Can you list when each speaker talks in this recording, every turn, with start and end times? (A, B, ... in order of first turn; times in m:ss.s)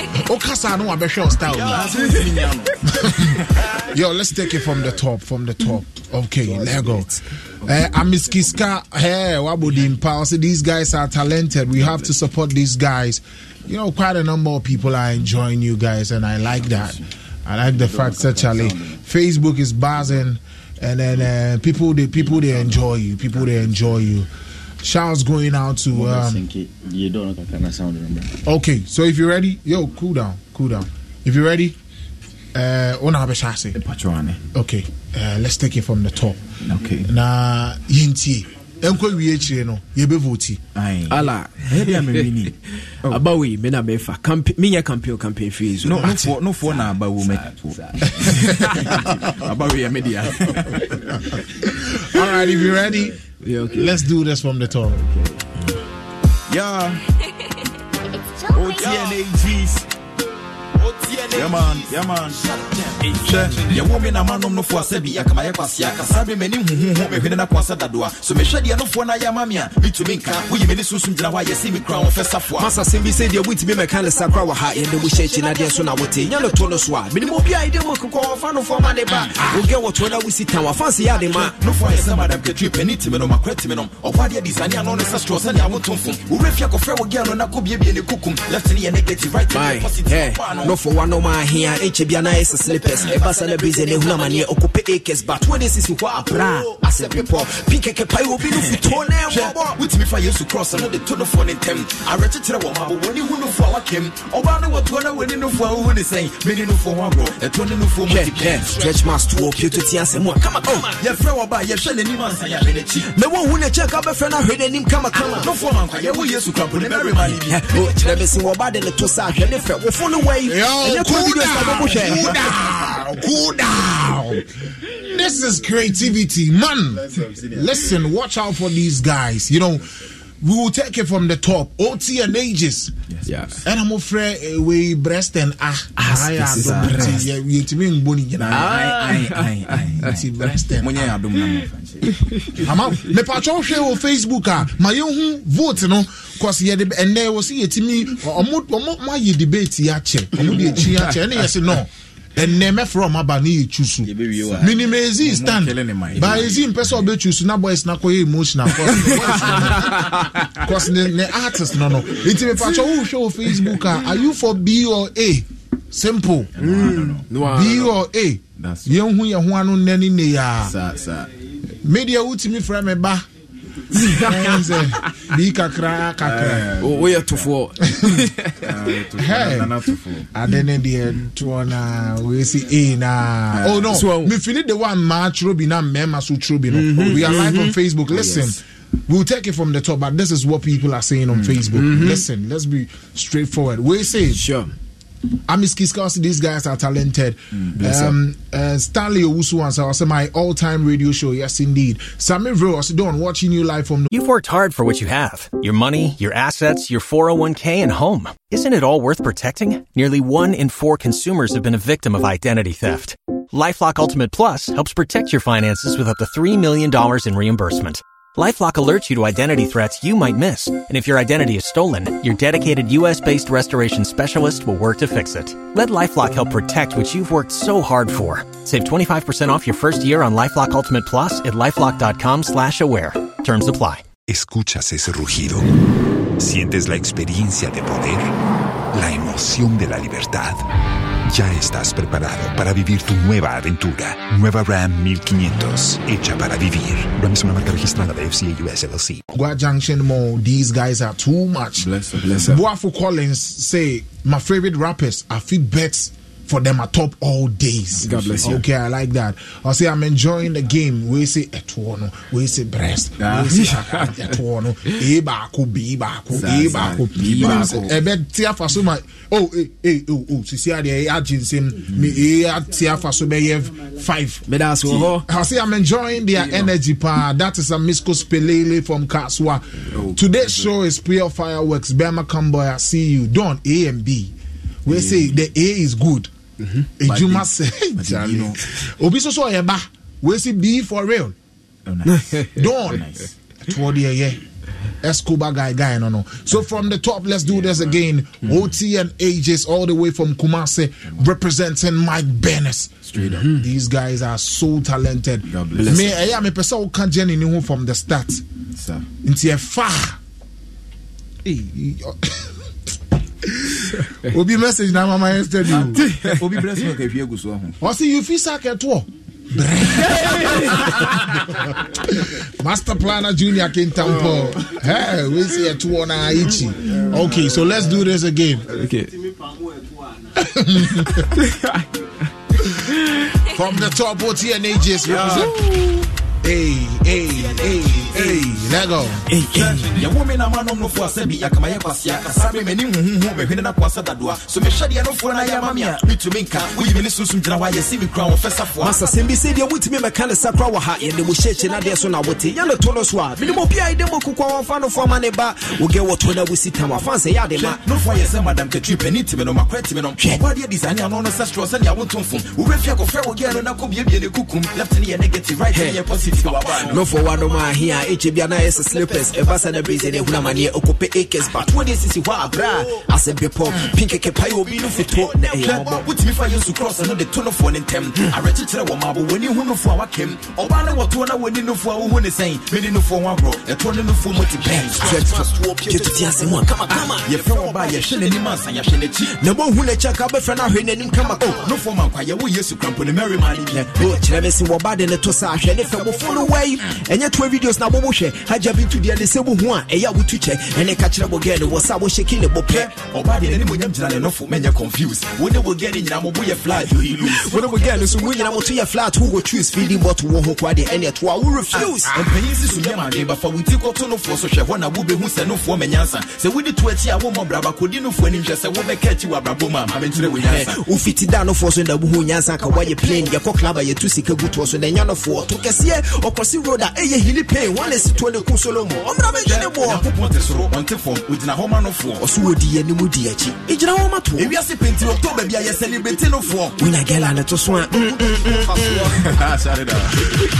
0:00.2-0:01.9 A
0:01.5-0:03.2 B
0:03.0-0:24.3 A
0:07.8-0:08.5 B
0:17.7-0:19.0 C
0:22.5-0:22.9 B
0:23.7-0:24.0 B
0:24.8-0:26.4 A
0:25.9-0:28.3 C
0:28.4-0:31.8 A
0:32.5-0:33.8 A
0:33.7-0:34.4 B
0:34.5-0:36.5 A
0:36.6-0:37.1 B
0:37.0-0:40.6 A
0:40.8-0:42.5 B
0:41.1-0:42.3 D
0:43.1-0:46.8 D
0:45.8-0:51.2 B
0:51.7-0:53.2 A
0:53.4-0:54.0 D
0:53.7-0:55.0 A
0:55.0-0:55.4 B
0:56.5-0:57.0 B
0:58.6-0:59.8 B
1:00.9-1:12.9 B
1:12.5-1:21.6 D
1:21.2-1:30.8 B
1:29.5-1:39.8 D
1:32.6-1:34.4 B
1:35.9-1:37.5 B
1:38.4-1:48.9 B
1:48.1-1:51.0 D
1:51.0-1:53.1 B
1:53.1-1:56.2 D
1:55.3-1:57.9 B
1:57.0-2:02.4 D
2:00.5-2:12.9 A
2:06.9-2:07.8 B
2:13.1-2:13.6 B
2:13.3-2:13.6 D
2:13.7-2:18.7 A
2:16.0-2:17.3 D
2:16.6-2:17.0 B
2:18.4-2:22.2 B
2:18.5-2:20.0 D
2:20.1-2:21.1 A
2:22.6-2:46.5 A
2:30.6-2:30.9 B
2:34.1-2:34.7 C
2:35.2-2:36.7 B
2:38.9-2:39.5 D
2:46.6-2:47.3 B
2:46.6-2:48.0 D
2:47.5-2:50.7 A
2:48.5-2:49.0 B
2:50.6-2:51.3 B
2:51.8-2:53.3 A
2:53.9-2:54.9 D
2:54.2-2:56.7 A
2:56.2-2:57.5 B
2:56.8-2:59.0 D
2:57.9-2:58.1 A
2:58.6-3:00.3 B
2:59.2-2:59.7 A
3:00.3-3:14.4 A
3:03.5-3:04.0 B
3:03.9-3:04.3 D
3:06.7-3:07.8 D
3:08.1-3:08.5 B
3:11.3-3:11.6 B
3:11.7-3:12.2 D
3:14.3-3:14.7 D
3:15.5-3:24.1 A
3:17.6-3:18.1 B
3:24.1-3:54.1 E
3:54.3-3:55.8 F
3:56.4-3:58.4 F
3:58.9-4:00.6 F
4:01.3-4:09.2 F
4:09.3-4:11.9 A
4:11.8-4:12.4 B
4:12.2-4:12.6 D
4:12.4-4:34.5 A
4:18.0-4:18.6 B
4:18.0-4:18.6 D
4:23.2-4:23.7 B
4:26.4-4:27.9 B
4:27.2-4:27.8 D
4:34.5-4:35.2 D
4:35.3-4:44.3 A
4:39.9-4:40.7 B
4:44.9-4:46.3 A
4:46.6-4:46.9 D
4:47.0-4:51.4 A
4:47.1-4:48.6 B
4:51.9-4:52.2 B
4:52.6-4:53.1 A
4:52.8-4:53.3 B
4:53.7-4:54.4 A
4:55.0-5:08.4 A
4:57.5-4:58.7 B
5:03.1-5:03.5 B
5:03.2-5:03.6 D
5:05.5-5:06.2 B
5:05.8-5:06.1 D
5:08.8-5:09.0 B
5:09.2-5:10.2 A
5:11.4-5:16.0 A
5:15.7-5:17.8 B
5:16.0-5:16.3 D
5:17.8-5:21.1 A
5:22.1-5:28.7 A
5:28.7-5:29.2 D
5:30.4-5:31.3 A
5:31.4-5:31.8 D
5:33.5-5:35.6 A
5:35.1-5:35.5 B
5:35.5-5:36.0 D
5:36.4-5:39.3 A
5:37.4-5:38.4 B
5:39.3-5:40.0 D
5:39.5-5:49.0 B
5:48.8-5:57.8 D
5:57.6-6:07.2 B
6:05.7-6:16.1 D
6:11.6-6:13.0 B
6:13.7-6:25.5 B
6:24.4-6:27.9 D
6:27.1-6:29.4 B
6:29.2-6:31.8 D
6:31.5-6:34.2 B
6:33.7-6:42.9 D
6:42.7-6:48.1 B
6:46.7-6:53.3 D
6:51.7-7:00.8 B
7:00.1-7:10.1 D
7:09.4-7:12.2 B
7:12.2-7:14.5 D
7:14.3-7:16.8 B
7:16.8-7:19.2 D
7:17.7-7:20.2 B